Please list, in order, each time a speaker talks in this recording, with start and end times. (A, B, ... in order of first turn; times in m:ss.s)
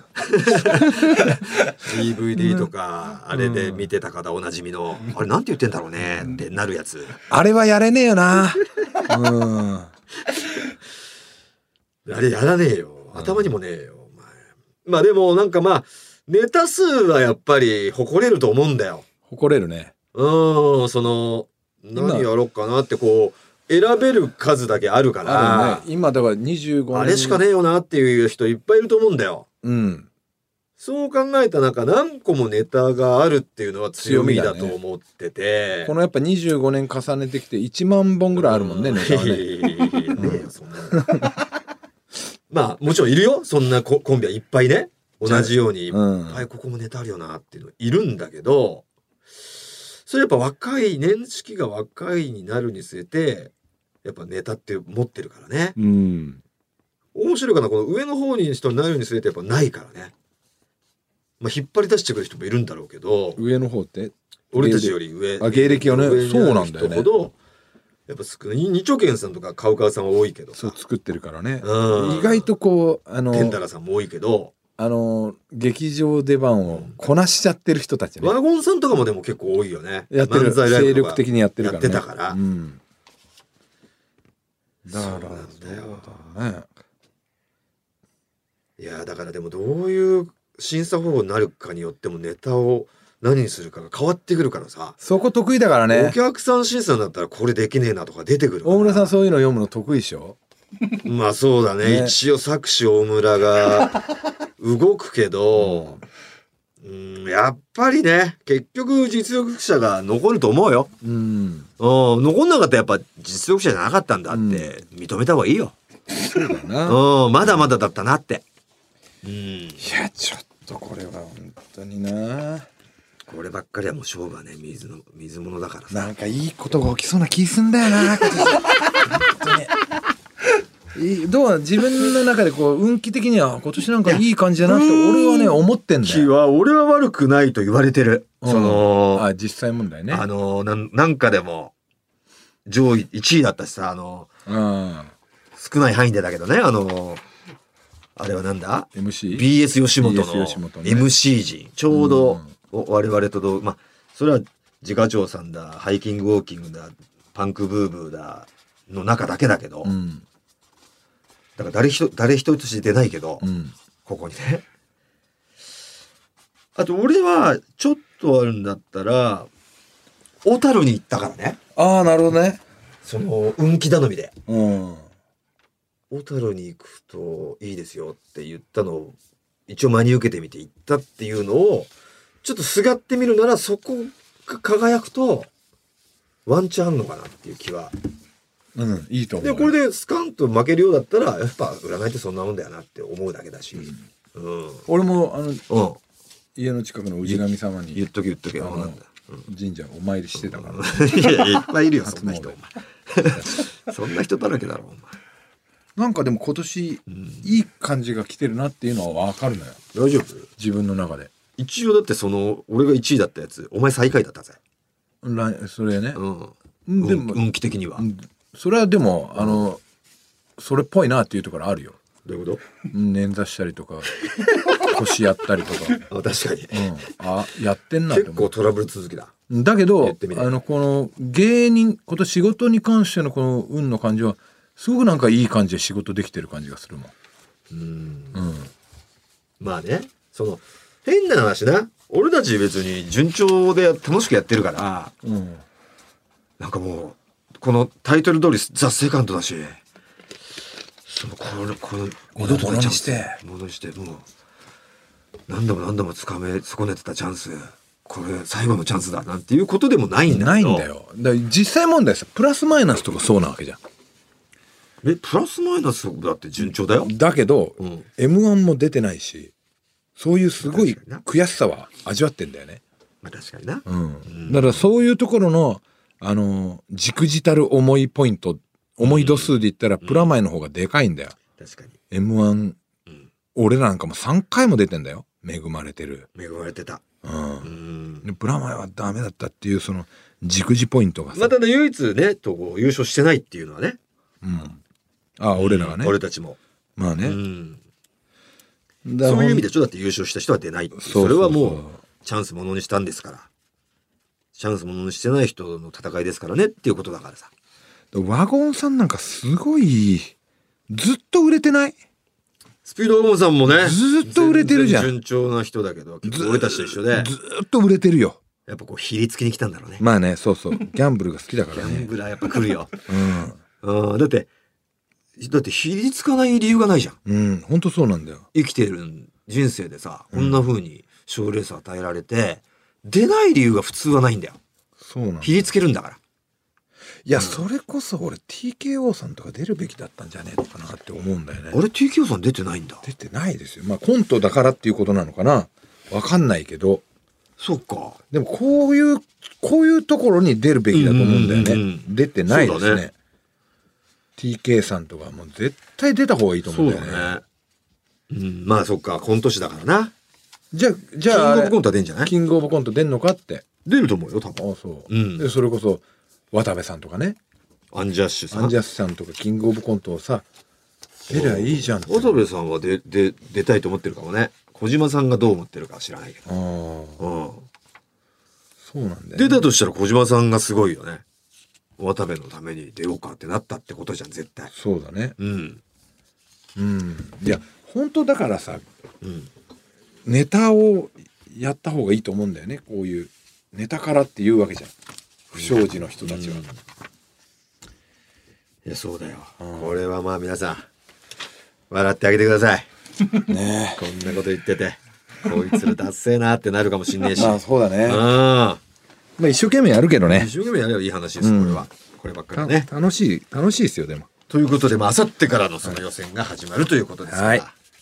0:00.2-0:07.2 A
0:00.7-0:01.4 B
0:03.3-0:03.9 B
0:07.3-0:09.9 B
0:12.0-0:19.0 A
0:13.1-0:13.4 B
0:19.3-0:19.9 B
0:20.1-0:25.8 A
0:22.0-0:22.3 B
0:25.2-0:27.4 B
0:26.9-0:29.4 A
0:29.6-0:30.1 B
0:30.8-0:35.9 A
0:34.0-0:34.8 B
0:35.8-0:41.3 B
0:38.3-0:41.2 A
0:42.5-0:48.8 A
0:45.2-0:46.4 B
0:50.0-0:53.5 A
0:54.0-0:55.8 A
0:55.8-0:56.4 B
0:57.1-1:00.1 A
1:01.4-1:03.4 A
1:03.4-1:07.1 B
1:04.5-1:07.3 A
1:08.1-1:10.8 A
1:10.5-1:13.6 B
1:11.6-1:12.5 A
1:13.3-1:14.5 A
1:14.8-1:18.3 B
1:16.7-1:17.0 A
1:18.2-1:22.4 A
1:20.1-1:22.8 B
1:24.8-1:26.7 B
1:24.9-1:26.2 A
1:28.8-1:35.0 A
1:35.0-1:36.2 B
1:35.9-1:39.1 A
1:38.6-1:40.4 B
1:41.0-1:44.0 A
1:41.8-1:42.2 B
1:44.6-1:46.0 A
1:45.6-1:46.0 B
1:46.8-1:50.9 A
1:51.0-1:51.7 B
1:51.8-1:55.7 A
1:54.3-1:54.7 B
1:56.2-1:57.0 B
1:56.8-1:58.4 A
1:59.2-1:59.8 A
1:59.8-2:02.7 B
2:03.3-2:06.0 A
2:05.9-2:09.7 B
2:10.9-2:16.3 B
2:14.0-2:19.3 A
2:18.4-2:20.2 B
2:20.1-2:21.7 A
2:22.6-2:24.3 A
2:24.4-2:25.1 B
2:25.6-2:27.2 A
2:28.2-2:39.9 A
2:28.9-2:29.5 B
2:30.0-2:31.1 B
2:31.9-2:32.5 B
2:39.8-2:40.2 B
2:41.6-2:43.5 A
2:43.4-2:43.7 B
2:44.0-2:44.6 A
2:46.7-2:49.5 A
2:50.4-2:51.6 A
2:51.8-2:52.6 B
2:53.0-2:54.3 A
2:54.5-2:55.1 B
2:56.1-2:59.2 A
2:59.7-3:01.9 A
3:02.4-3:05.5 A
3:06.4-3:07.9 A
3:08.7-3:09.7 B
3:09.4-3:14.8 A
3:14.9-3:15.6 B
3:15.7-3:16.0 A
3:16.6-3:18.0 B
3:17.2-3:19.5 A
3:18.6-3:22.6 B
3:20.4-3:25.2 A
3:23.2-3:23.6 B
3:26.0-3:29.8 B
3:27.1-3:27.5 A
3:29.9-3:30.5 A
3:30.6-3:31.3 B
3:31.6-3:34.6 A
3:35.2-3:36.2 B
3:36.1-3:38.0 A
3:36.9-3:37.4 B
3:38.0-3:39.8 B
3:39.4-3:39.6 A
3:40.6-3:42.0 B
3:42.2-3:42.6 A
3:42.9-3:44.1 B
3:44.7-3:46.0 B
3:46.1-3:46.9 A
3:46.7-3:48.5 B
3:48.1-3:49.3 A
3:49.5-3:57.1 B
3:50.0-3:50.5 A
3:57.7-3:58.4 A
3:58.3-3:58.7 B
3:59.6-4:05.1 A
4:05.2-4:05.6 B
4:06.6-4:09.8 A
4:11.0-4:14.2 A
4:12.4-4:13.4 B
4:15.5-4:20.8 A
4:20.3-4:23.8 B
4:25.0-4:27.1 A
4:27.0-4:29.5 B
4:27.8-4:28.0 A
4:30.2-4:32.8 B
4:30.6-4:31.2 A
4:33.2-4:34.9 A
4:33.8-4:41.4 B
4:39.0-4:40.3 A
4:41.6-4:41.9 A
4:42.1-4:42.8 B
4:43.5-4:46.3 B
4:46.3-4:47.0 A
4:47.2-4:51.5 B
4:47.6-4:48.2 A
4:51.3-4:54.0 A
4:54.4-4:54.8 B
4:55.4-4:56.2 B
4:55.6-4:56.6 A
4:57.0-4:57.4 B
4:57.2-4:57.8 A
4:59.0-4:59.7 B
4:59.2-5:03.5 A
5:00.9-5:02.0 B
5:04.5-5:07.5 A
5:08.1-5:10.3 B
5:10.9-5:12.0 B
5:12.8-5:17.3 A
5:13.7-5:15.1 B
5:16.2-5:18.4 B
5:18.7-5:20.0 A
5:20.0-5:22.1 B
5:21.7-5:23.0 A
5:23.1-5:23.6 B
5:23.8-5:24.5 A
5:25.4-5:27.2 A
5:27.2-5:28.4 B
5:28.5-5:34.6 A
5:30.3-5:30.6 B
5:35.0-5:35.7 B
5:35.4-5:36.2 A
5:37.2-5:41.8 B
5:37.4-5:37.6 A
5:41.7-5:43.0 A
5:43.0-5:47.0 B
5:47.6-5:48.2 A
5:48.3-5:53.1 B
5:50.9-5:53.0 A
5:54.4-5:57.3 B
5:56.7-5:57.4 A
5:58.3-6:00.1 A
6:00.7-6:03.6 B
6:01.3-6:02.3 A
6:03.8-6:05.5 A
6:04.6-6:07.4 B
6:07.9-6:08.7 A
6:08.5-6:10.4 B
6:11.3-6:16.4 A
6:11.3-6:12.4 B
6:16.4-6:17.2 B
6:17.2-6:17.7 A
6:18.8-6:19.6 B
6:19.3-6:21.2 A
6:22.0-6:24.7 A
6:24.7-6:25.3 B
6:25.4-6:25.8 A
6:26.8-6:28.8 B
6:29.2-6:29.5 A
6:30.2-6:34.9 B
6:35.5-6:36.6 B
6:35.5-6:36.8 A
6:38.8-6:40.9 A
6:39.6-6:39.9 B
6:41.9-6:42.9 A
6:43.4-6:44.0 B
6:44.0-6:48.8 A
6:47.3-6:48.2 B
6:49.4-6:50.5 B
6:50.2-6:52.9 A
6:51.4-6:51.8 B
6:52.5-6:54.3 B
6:54.5-6:57.7 A
6:57.3-6:57.6 B